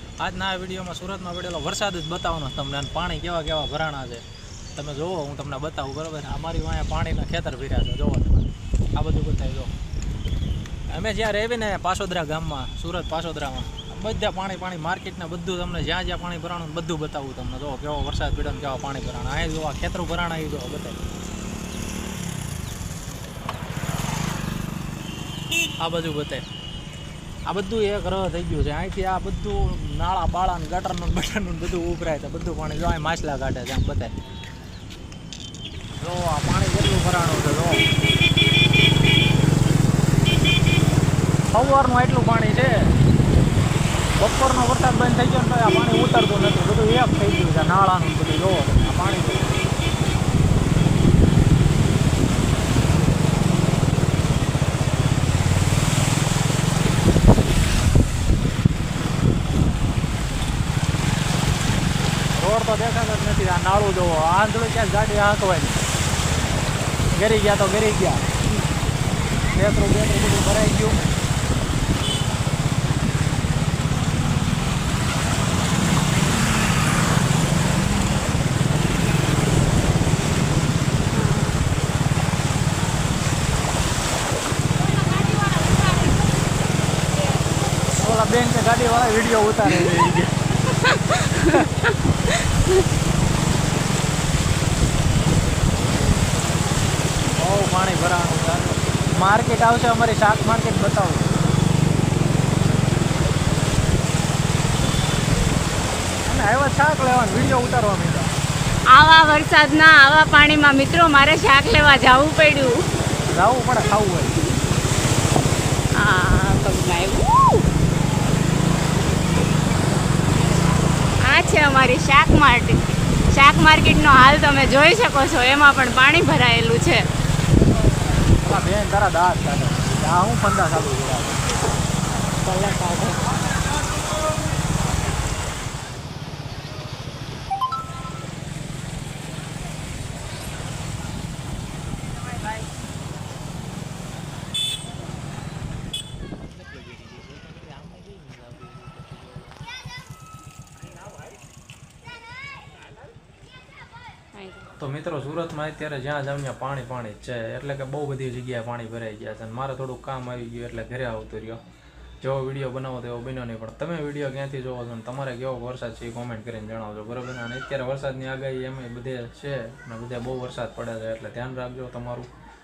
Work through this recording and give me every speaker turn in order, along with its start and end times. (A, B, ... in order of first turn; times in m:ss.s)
0:00.2-0:04.2 A
0:04.8-0:09.7 A
0:10.9-0:21.0 A
0:25.8-0:26.4 A
0:27.5-0:34.1 A
0:36.0-0:37.8 A
0:41.5-0:42.9 A
0:44.2-0:49.6 A
1:02.4-1:05.8 A
1:07.1-1:08.3 A
1:09.5-1:11.0 A
1:21.1-1:21.6 B
1:28.0-1:30.3 A
1:30.8-1:31.8 B
1:31.4-1:31.7 A
1:37.4-1:41.3 A
1:46.2-1:48.3 A
1:48.9-1:52.9 B
1:53.3-1:54.4 A
1:56.0-1:57.7 B
2:01.2-2:07.1 B
2:08.4-2:11.4 A
2:12.4-2:13.3 B
2:26.7-2:29.4 A
2:34.3-2:34.7 B
2:34.8-2:41.6 A
2:42.2-2:52.3 A